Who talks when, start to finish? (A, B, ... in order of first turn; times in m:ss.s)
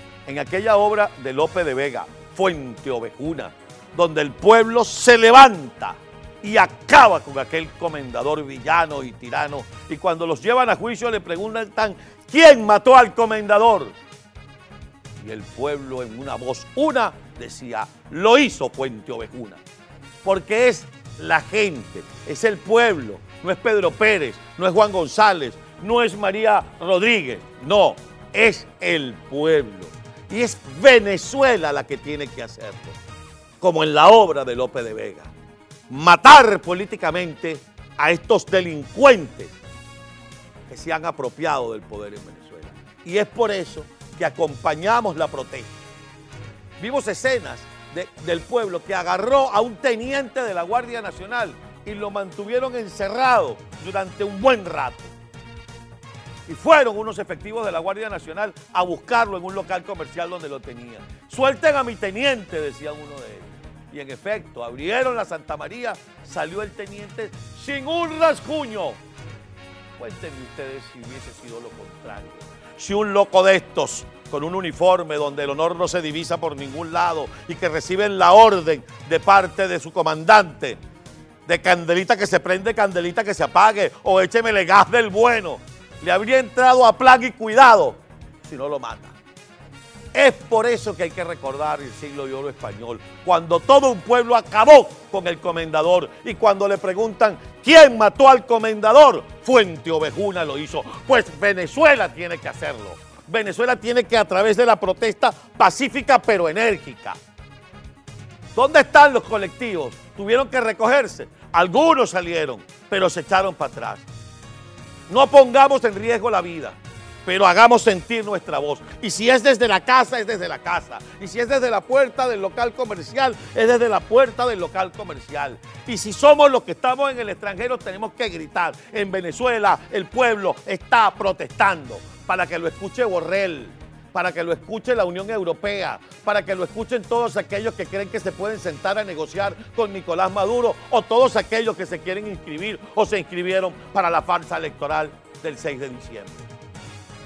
0:00.3-0:14.0 A
0:15.2-0:19.6 A
0:20.2-0:33.0 A
0:33.6-0:35.3 A
0:35.9-0:39.6 A
0:40.7-0:45.7 A
0:46.8-0:55.1 A
0:56.5-1:09.0 A
1:10.0-1:20.8 A
1:21.5-1:29.2 A
1:30.1-1:47.2 A
1:48.6-1:54.1 A
1:55.1-2:26.5 A